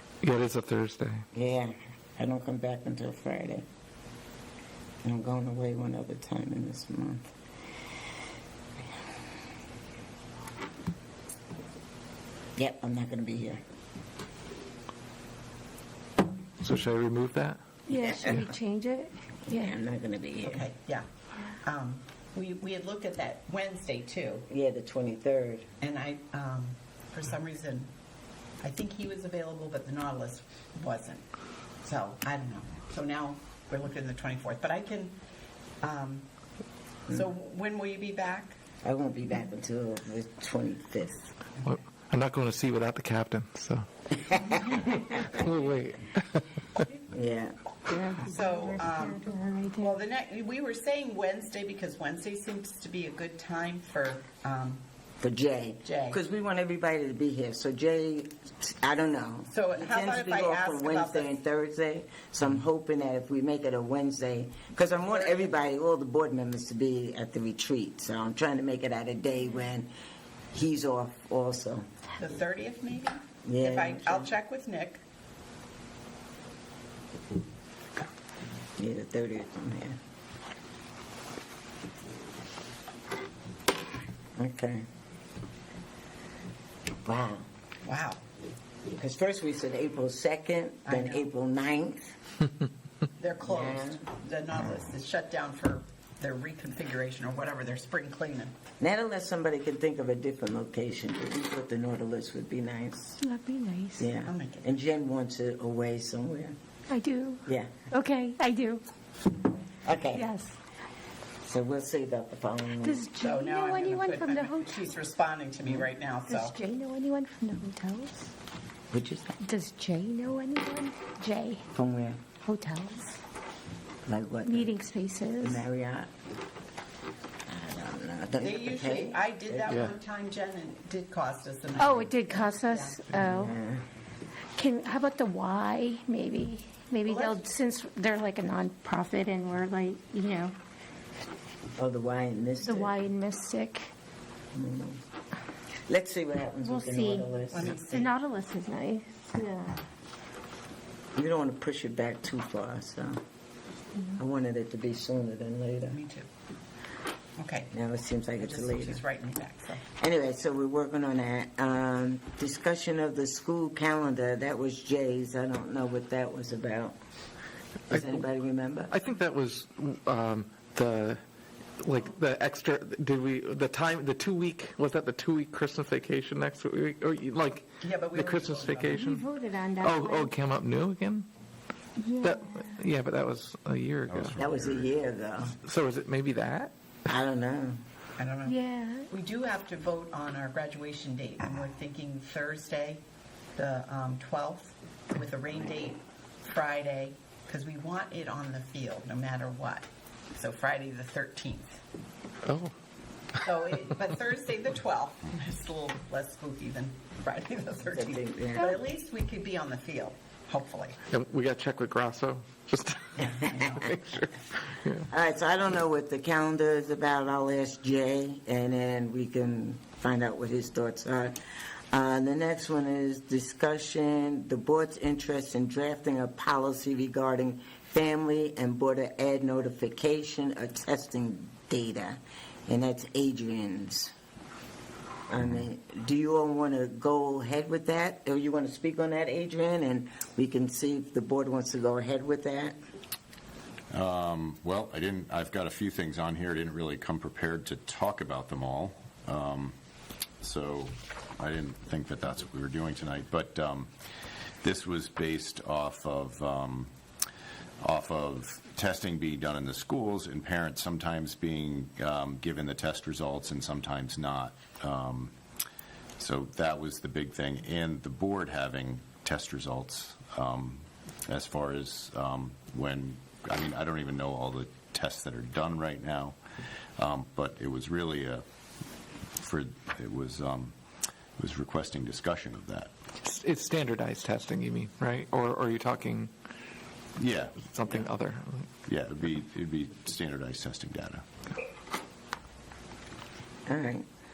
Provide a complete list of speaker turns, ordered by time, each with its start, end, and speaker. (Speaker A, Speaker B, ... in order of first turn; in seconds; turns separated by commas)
Speaker A: 0.2-1.2, Speaker B: 1.4-3.6, Speaker B: 5.0-7.3, Speaker B: 12.6-13.6, Speaker A: 16.6-17.6, Speaker C: 17.9-19.8, Speaker B: 17.9-18.5, Speaker B: 19.5-20.6, Speaker D: 20.5-21.1, Speaker D: 21.6-24.5, Speaker B: 24.5-25.7, Speaker D: 25.8-27.9, Speaker D: 28.6-31.2, Speaker D: 31.8-35.2, Speaker D: 35.8-36.3, Speaker D: 37.1-38.6, Speaker B: 38.8-41.3, Speaker A: 41.6-43.9, Speaker B: 44.2-44.8, Speaker A: 45.0-46.9, Speaker B: 47.1-47.6, Speaker C: 47.9-50.0, Speaker D: 48.2-49.2, Speaker D: 49.8-54.8, Speaker B: 55.2-69.9, Speaker D: 55.8-56.2, Speaker D: 59.5-61.4, Speaker D: 65.0-65.5, Speaker B: 70.5-71.8, Speaker D: 72.2-75.0, Speaker B: 73.4-74.3, Speaker B: 78.8-80.0, Speaker B: 84.4-84.9, Speaker B: 87.0-87.5, Speaker D: 87.8-88.2, Speaker B: 89.0-92.1, Speaker D: 90.9-91.3, Speaker D: 93.2-98.6, Speaker B: 93.4-94.0, Speaker B: 98.8-103.2, Speaker C: 103.2-104.1, Speaker B: 104.0-106.5, Speaker D: 104.2-104.7, Speaker C: 106.9-108.8, Speaker B: 107.5-107.8, Speaker B: 109.8-110.3, Speaker C: 110.1-110.5, Speaker B: 111.4-113.1, Speaker C: 112.8-114.9, Speaker D: 113.2-116.6, Speaker C: 116.3-118.3, Speaker B: 118.9-119.4, Speaker C: 119.4-121.6, Speaker B: 121.7-122.2, Speaker C: 122.4-123.2, Speaker B: 124.1-124.9, Speaker C: 124.4-125.6, Speaker B: 125.4-126.1, Speaker B: 127.5-129.8, Speaker D: 128.4-133.0, Speaker C: 131.8-133.6, Speaker B: 133.3-133.8, Speaker C: 134.6-140.6, Speaker D: 137.1-137.4, Speaker B: 141.8-142.9, Speaker C: 142.6-143.9, Speaker B: 144.6-145.0, Speaker B: 145.9-147.7, Speaker C: 146.6-149.8, Speaker D: 147.5-148.2, Speaker B: 151.2-153.2, Speaker B: 154.2-156.0, Speaker D: 155.9-156.3, Speaker D: 157.4-157.7, Speaker B: 157.7-159.0, Speaker D: 158.4-159.8, Speaker B: 160.0-166.9, Speaker B: 167.9-168.9, Speaker A: 167.9-168.3, Speaker A: 168.9-171.2, Speaker A: 171.8-179.2, Speaker D: 177.8-179.2, Speaker C: 178.9-180.4, Speaker A: 179.8-181.3, Speaker C: 182.0-182.8, Speaker A: 182.2-184.4, Speaker E: 184.1-184.9, Speaker B: 184.4-185.6, Speaker A: 185.6-186.7, Speaker B: 187.1-187.8, Speaker D: 188.2-188.6, Speaker C: 188.4-189.1, Speaker D: 189.1-193.0, Speaker D: 193.6-201.8, Speaker A: 202.4-202.7, Speaker D: 203.4-211.0, Speaker B: 207.9-208.7, Speaker A: 211.1-215.1, Speaker D: 213.2-213.9, Speaker B: 215.1-221.4, Speaker B: 221.9-234.1, Speaker B: 235.3-242.8, Speaker E: 243.9-249.8, Speaker E: 250.4-253.9, Speaker E: 254.6-256.9, Speaker E: 257.8-265.3, Speaker E: 266.2-276.4, Speaker E: 277.0-278.4, Speaker E: 279.4-280.8, Speaker E: 281.4-282.9, Speaker A: 283.2-286.3, Speaker E: 287.2-288.1, Speaker A: 287.7-288.7, Speaker E: 288.9-291.2, Speaker B: 293.7-294.1